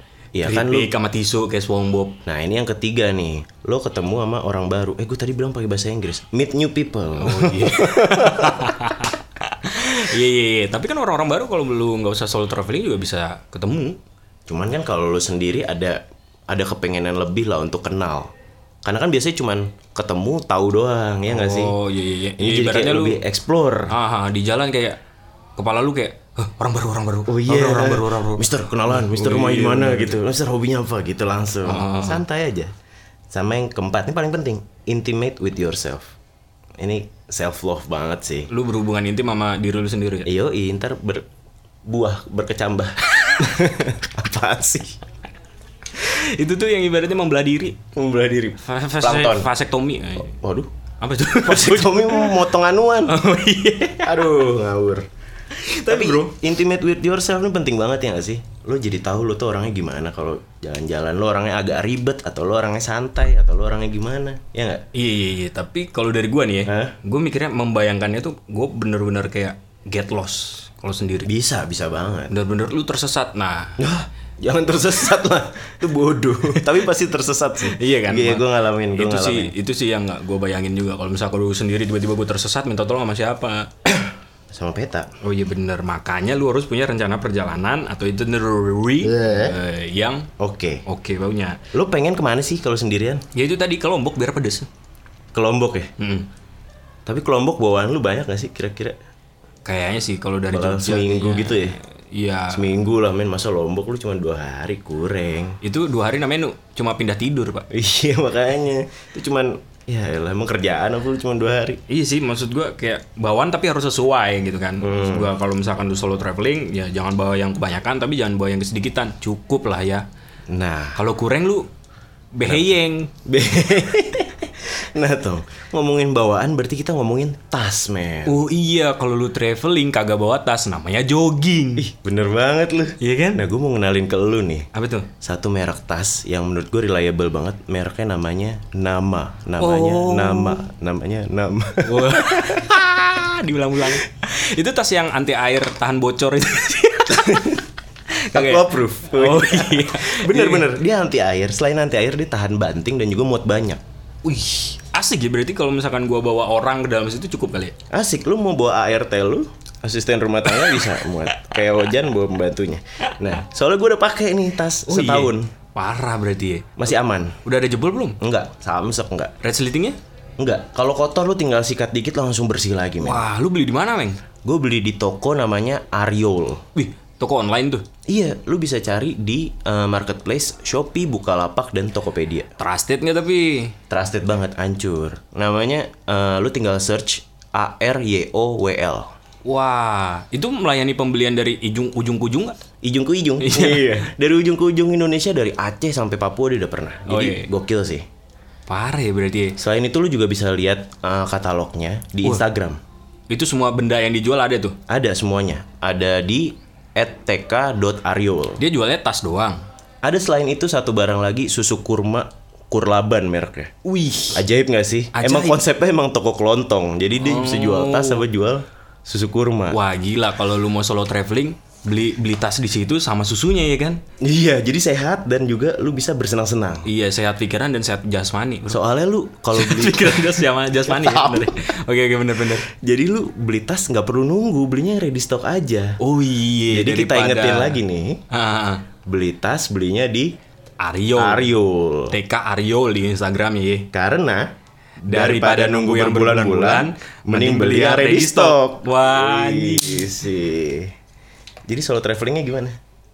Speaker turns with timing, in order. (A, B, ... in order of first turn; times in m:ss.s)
0:00.3-0:00.9 A
0:00.4-0:02.2 B
0:02.2-0:08.7 A
0:07.2-0:14.0 B
0:14.5-0:18.3 A
0:18.8-0:21.8 A
0:21.3-0:23.2 B
0:22.4-0:23.9 A
0:23.9-0:25.0 B
0:25.6-0:30.2 B
0:27.3-0:32.7 A
0:31.6-0:32.2 B
0:33.3-0:36.1 A
0:36.8-0:38.5 A
0:38.5-0:40.3 B
0:40.2-0:41.2 A
0:41.8-0:45.0 A
0:45.9-0:47.8 B
0:47.9-0:49.5 A
0:48.6-0:50.3 B
0:50.3-0:50.7 A
0:51.0-0:52.4 B
0:51.4-0:53.2 A
0:53.0-0:54.5 B
0:53.9-0:55.0 A
0:55.5-0:56.4 B
0:55.8-1:04.8 A
1:04.9-1:11.3 B
1:06.6-1:07.0 A
1:11.2-1:12.3 A
1:12.3-1:13.8 B
1:13.8-1:19.5 A
1:17.6-1:23.7 B
1:24.5-1:25.1 A
1:25.2-1:30.3 B
1:29.0-1:29.6 A
1:30.4-1:30.8 A
1:30.8-1:31.6 B
1:31.7-1:33.2 A
1:33.3-1:34.7 B
1:35.3-1:35.9 A
1:36.0-1:36.3 B
1:37.0-1:39.0 A
1:39.6-1:42.6 B
1:40.5-1:41.8 A
1:42.5-1:45.6 A
1:45.6-1:47.6 B
1:47.7-1:51.8 A
1:51.9-2:00.0 B
1:54.8-1:55.3 A
2:00.5-2:01.0 A
2:01.0-2:01.7 B
2:02.3-2:03.1 B
2:03.2-2:08.4 A
2:08.2-2:11.8 B
2:11.8-2:14.7 A
2:13.0-2:13.4 B
2:14.7-2:15.1 B
2:15.2-2:22.7 A
2:19.6-2:20.6 B
2:21.8-2:27.4 B
2:27.1-2:27.6 A
2:28.1-2:30.7 B
2:28.3-2:33.8 A
2:34.2-2:37.7 B
2:37.9-2:45.5 A
2:40.5-2:41.3 B
2:44.8-2:46.9 B
2:46.8-2:47.4 A
2:47.4-2:48.2 B
2:48.2-2:49.3 A
2:49.4-2:50.0 B
2:50.4-2:53.2 A
2:53.0-2:54.2 B
2:54.4-2:56.6 A
2:56.7-2:57.8 B
2:58.1-3:02.5 A
3:02.6-3:03.7 B
3:03.9-3:09.1 A
3:09.4-3:12.6 B
3:12.8-3:18.0 A
3:13.4-3:14.1 B
3:17.1-3:17.5 B
3:18.7-3:19.6 B
3:19.6-3:22.8 A
3:23.3-3:24.8 B
3:24.9-3:28.6 A
3:28.6-3:29.6 B
3:30.0-3:33.7 A
3:33.8-3:34.4 B
3:34.3-3:39.8 A
3:35.1-3:35.6 B
3:37.2-3:38.2 B
3:39.7-3:44.0 B
3:44.2-3:46.8 A
3:46.8-3:48.8 B
3:48.7-3:51.6 A
3:49.5-3:52.7 B
3:52.7-3:56.0 A
3:56.0-3:57.8 B
3:56.7-3:58.2 A
3:58.3-3:58.8 B
3:59.0-4:00.3 A
4:00.8-4:01.5 B
4:01.2-4:02.1 A
4:02.1-4:03.9 B
4:03.9-4:04.5 A
4:05.0-4:10.9 A
4:05.1-4:10.2 B
4:11.7-4:12.8 A